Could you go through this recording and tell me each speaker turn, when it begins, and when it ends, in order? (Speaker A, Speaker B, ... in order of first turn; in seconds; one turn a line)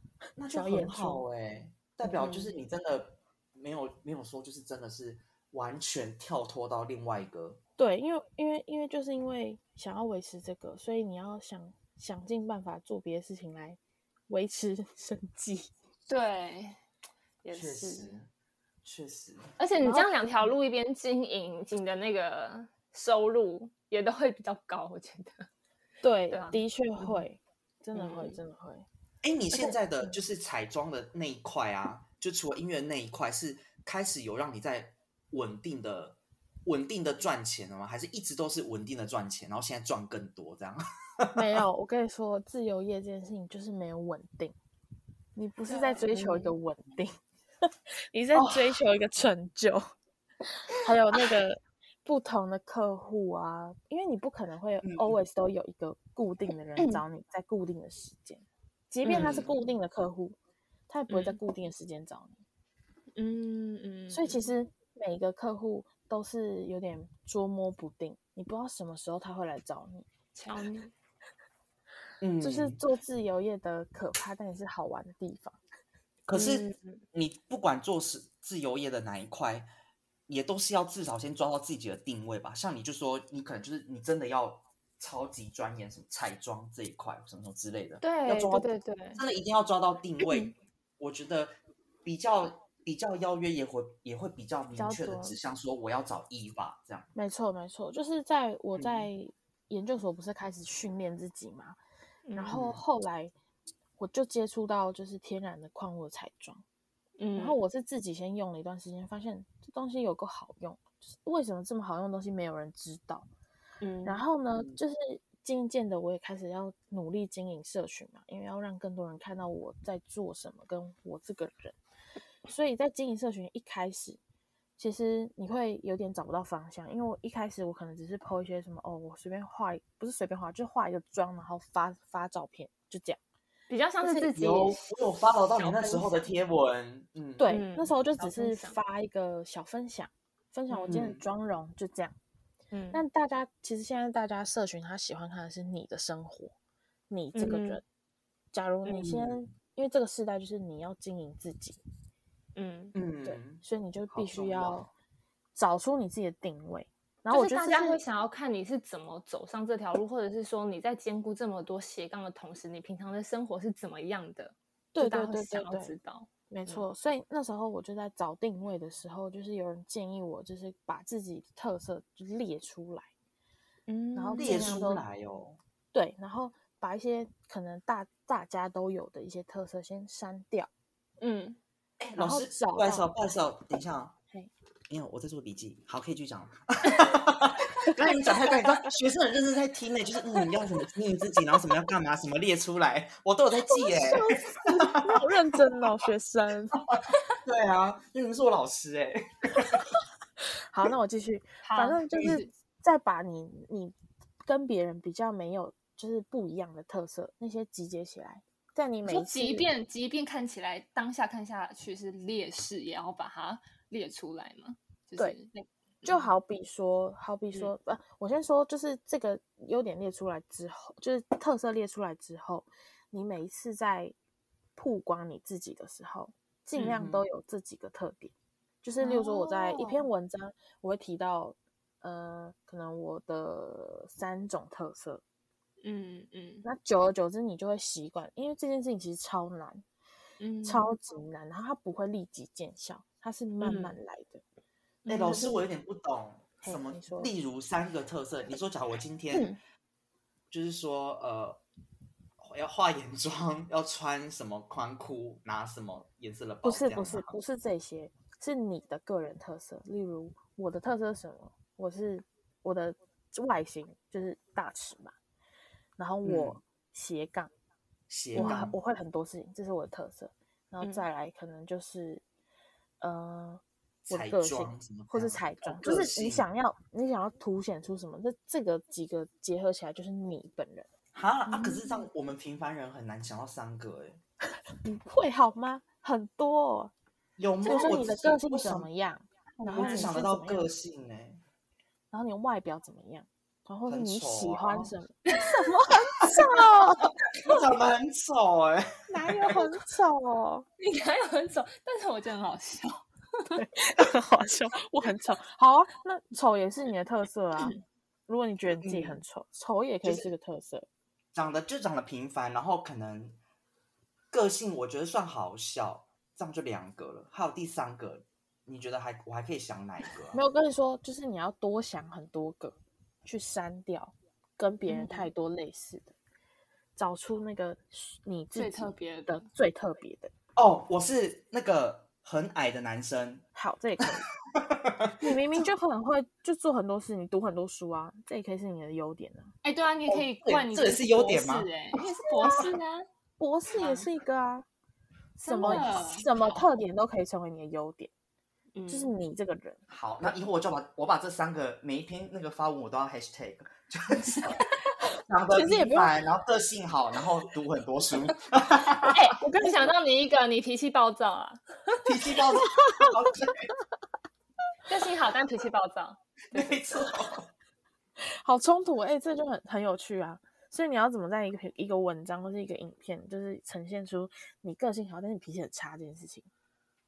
Speaker A: 0.4-7.6
Speaker B: 0.5-1.2
Speaker C: 2.2-2.4
Speaker B: 7.8-15.7
Speaker C: 16.1-16.8
Speaker C: 17.4-18.1
Speaker A: 17.5-18.3
Speaker A: 18.8-19.5
Speaker C: 19.6-25.5
Speaker B: 19.8-20.1
Speaker B: 26.0-28.9
Speaker C: 26.3-26.6
Speaker C: 27.9-28.4
Speaker A: 29.2-41.4
Speaker B: 41.3-44.5
Speaker B: 45.4-47.1
Speaker C: 45.7-46.5
Speaker B: 47.7-49.8
Speaker A: 48.3-48.8
Speaker B: 50.5-60.4
Speaker A: 54.8-55.2
Speaker A: 59.0-59.5
Speaker B: 60.9-62.4
Speaker C: 61.1-61.4
Speaker C: 63.1-64.5
Speaker B: 64.1-70.1
Speaker C: 70.3-70.9
Speaker A: 72.2-72.8
Speaker B: 72.4-75.6
Speaker A: 76.3-79.7
Speaker C: 76.3-77.0
Speaker A: 80.3-91.5
Speaker C: 88.0-89.2
Speaker C: 90.2-90.5
Speaker A: 92.0-97.1
Speaker B: 94.7-95.4
Speaker B: 97.1-101.8
Speaker A: 98.8-99.1
Speaker C: 102.2-102.5
Speaker B: 102.3-103.3
Speaker A: 102.5-102.8
Speaker B: 104.0-106.6
Speaker C: 107.2-107.6
Speaker B: 107.4-113.3
Speaker C: 113.8-114.2
Speaker B: 114.0-121.8
Speaker B: 122.5-124.2
Speaker B: 124.8-133.2
Speaker C: 133.7-136.3
Speaker B: 134.0-134.3
Speaker A: 134.3-137.5
Speaker B: 137.4-142.1
Speaker C: 137.4-138.8
Speaker C: 140.7-141.0
Speaker A: 140.9-141.2
Speaker C: 142.7-143.0
Speaker B: 142.9-146.5
Speaker B: 147.1-147.8
Speaker C: 147.3-147.8
Speaker B: 148.5-151.8
Speaker C: 148.9-149.1
Speaker A: 149.0-149.3
Speaker C: 152.5-152.9
Speaker A: 152.9-154.9
Speaker B: 153.2-154.9
Speaker B: 155.6-158.0
Speaker C: 157.3-166.8
Speaker B: 164.9-165.9
Speaker B: 166.5-173.1
Speaker C: 173.9-175.0
Speaker B: 174.1-175.0
Speaker A: 174.4-175.6
Speaker B: 175.9-180.7
Speaker C: 181.2-181.6
Speaker A: 182.0-184.1
Speaker B: 182.2-183.1
Speaker A: 184.9-194.2
Speaker B: 193.7-196.8
Speaker A: 194.8-195.2
Speaker A: 196.9-199.8
Speaker B: 200.7-209.7
Speaker C: 201.6-202.5
Speaker C: 209.1-216.3
Speaker B: 216.0-224.1
Speaker B: 224.8-235.2
Speaker C: 226.8-227.1
Speaker A: 226.9-227.2
Speaker C: 229.0-230.1
Speaker C: 235.8-236.6
Speaker B: 236.6-239.8
Speaker C: 240.4-240.9
Speaker B: 240.6-244.4
Speaker C: 243.6-244.0
Speaker C: 245.0-245.5
Speaker A: 245.1-249.5
Speaker B: 245.2-245.6
Speaker B: 246.6-247.3
Speaker A: 250.5-251.6
Speaker A: 252.4-257.3
Speaker B: 256.6-265.1
Speaker B: 266.0-267.5
Speaker A: 266.2-266.6
Speaker A: 268.1-268.8
Speaker B: 268.3-272.2
Speaker C: 268.4-268.7
Speaker C: 270.8-271.1
Speaker B: 273.0-280.9
Speaker A: 274.0-276.4
Speaker A: 281.1-284.2
Speaker B: 281.5-282.0
Speaker B: 284.8-286.9
Speaker A: 287.4-288.9
Speaker B: 287.6-290.7
Speaker C: 289.6-290.1
Speaker A: 289.7-291.4
Speaker B: 292.1-297.1
Speaker A: 293.9-294.9
Speaker C: 295.3-295.8
Speaker A: 297.3-299.6
Speaker B: 299.1-300.7
Speaker C: 300.8-303.6
Speaker B: 303.6-307.8
Speaker B: 308.3-310.9
Speaker A: 308.8-309.2
Speaker A: 310.0-310.3
Speaker A: 311.3-313.4
Speaker A: 314.3-320.4
Speaker B: 320.3-326.1
Speaker C: 324.9-325.3
Speaker B: 326.9-330.3
Speaker C: 328.5-329.4
Speaker A: 330.6-333.4
Speaker B: 333.5-334.3
Speaker A: 334.5-335.6
Speaker B: 335.2-339.5
Speaker C: 339.6-343.0
Speaker A: 340.1-341.8
Speaker B: 342.4-342.7
Speaker B: 343.4-344.6
Speaker C: 343.8-344.1
Speaker C: 345.4-346.6
Speaker B: 345.4-348.1
Speaker A: 345.6-345.9
Speaker C: 348.7-349.1
Speaker B: 348.9-349.8
Speaker A: 349.9-354.6
Speaker C: 354.2-354.7
Speaker A: 355.2-359.3
Speaker B: 355.5-356.2
Speaker C: 358.9-361.6
Speaker B: 359.4-359.9
Speaker A: 362.0-363.7
Speaker C: 364.9-367.2
Speaker A: 366.5-367.5
Speaker B: 368.2-376.5